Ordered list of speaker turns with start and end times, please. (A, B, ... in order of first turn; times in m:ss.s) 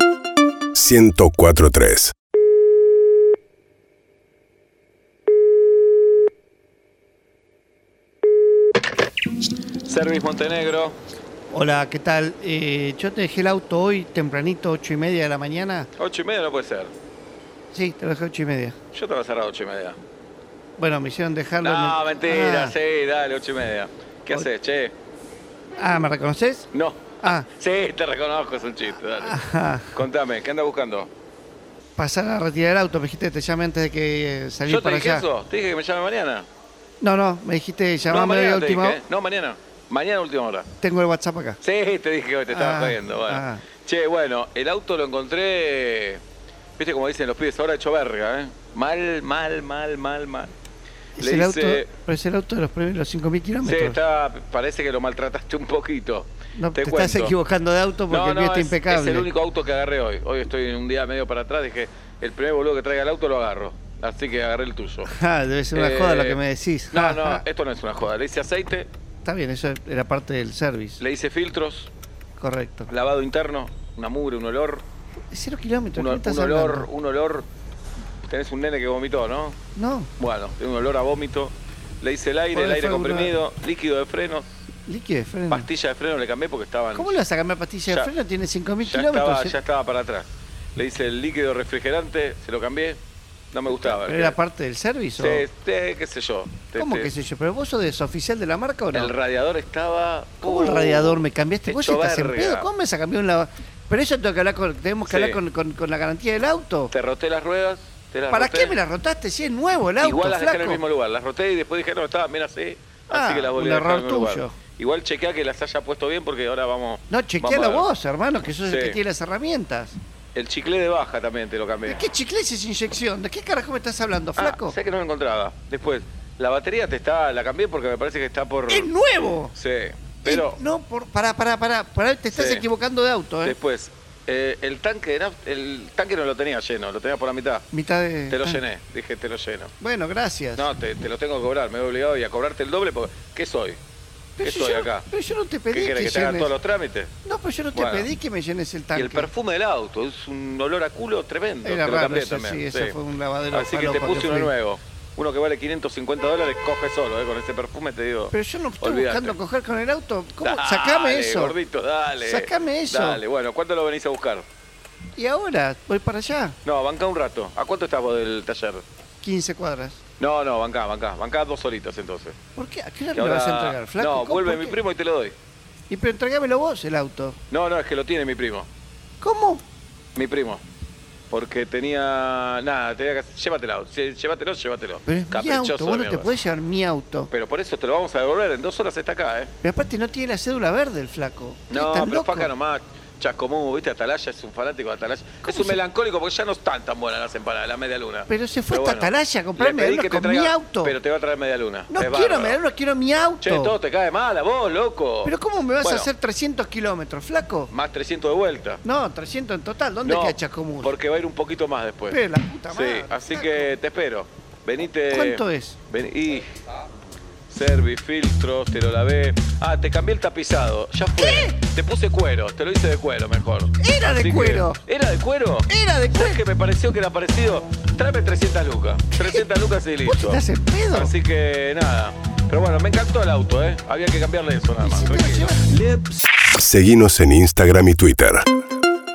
0:00.7-0:02.1 A
0:09.8-0:11.0 B
0:11.5-0:15.9 C
0:16.0-0:16.9 B
0:17.7-0:18.8 C
0:18.9-0:20.0 B
0:20.8-0:22.8 C
0:21.6-0:24.9 B
0:25.8-0:26.7 C
0:26.7-0:29.4 B
0:27.2-0:27.5 C
0:29.1-0:30.0 C
0:29.9-0:31.1 B
0:32.0-0:35.3 C
0:34.6-0:36.5 B
0:37.0-0:39.0 C
0:38.1-0:40.7 B
0:40.8-0:41.6 C
0:41.6-0:46.2 B
0:42.5-0:43.7 C
0:46.8-0:50.5 B
0:51.2-0:54.0 C
0:51.2-0:51.9 B
0:53.6-0:57.4 B
0:56.6-0:59.3 C
0:58.1-1:05.1 B
1:05.0-1:07.4 C
1:05.7-1:06.4 B
1:06.9-1:08.9 B
1:09.2-1:11.0 C
1:11.0-1:11.9 B
1:12.4-1:12.9 C
1:12.9-1:14.8 B
1:15.3-1:16.9 C
1:16.0-1:17.5 B
1:18.3-1:19.6 B
1:19.8-1:20.1 C
1:20.2-1:24.5 B
1:22.5-1:23.4 C
1:24.9-1:25.7 C
1:25.5-1:27.2 B
1:26.9-1:29.6 C
1:27.9-1:28.1 B
1:28.8-1:33.0 B
1:33.5-1:34.4 B
1:33.7-1:35.5 C
1:35.2-1:37.1 B
1:36.8-1:39.1 C
1:38.9-1:42.7 B
1:40.4-1:46.9 C
1:45.0-1:45.4 B
1:46.9-1:48.8 B
1:48.3-1:50.8 C
1:50.0-1:57.9 B
1:53.1-1:54.6 C
1:57.1-2:00.0 C
1:58.6-1:59.0 B
2:00.3-2:02.0 B
2:01.8-2:04.8 C
2:04.4-2:08.9 B
2:08.7-2:09.5 C
2:09.5-2:10.6 B
2:10.2-2:13.6 C
2:12.3-2:12.6 B
2:13.4-2:17.6 B
2:17.7-2:18.6 C
2:18.3-2:19.7 B
2:19.8-2:20.7 C
2:20.6-2:23.8 B
2:24.4-2:26.6 C
2:24.4-2:25.0 B
2:25.7-2:27.1 B
2:27.2-2:29.3 C
2:27.7-2:28.1 B
2:29.0-2:33.0 B
2:31.6-2:34.6 C
2:33.5-2:39.4 B
2:38.3-2:41.6 C
2:40.4-2:44.5 B
2:42.2-2:43.2 C
2:45.2-2:46.6 C
2:46.6-2:48.8 B
2:49.2-2:50.0 C
2:50.2-2:52.4 B
2:52.6-2:54.8 C
2:53.1-2:55.4 B
2:55.9-2:57.4 C
2:57.5-2:58.7 B
2:59.2-2:59.6 C
3:00.2-3:00.6 B
3:01.3-3:06.3 B
3:05.0-3:07.3 C
3:07.3-3:09.5 B
3:09.6-3:12.5 C
3:11.7-3:22.6 B
3:15.4-3:15.8 C
3:18.3-3:21.0 C
3:21.9-3:23.8 C
3:23.4-3:26.1 B
3:25.2-3:27.7 C
3:27.7-3:28.8 B
3:28.8-3:31.0 C
3:30.0-3:36.6 B
3:32.1-3:33.7 C
3:35.1-3:35.8 C
3:37.5-3:55.6 B
3:41.2-3:41.6 C
3:43.8-3:44.8 C
3:45.7-3:46.4 C
3:49.1-3:49.5 C
3:50.0-3:51.1 C
3:54.8-3:56.2 C
3:56.5-3:58.4 A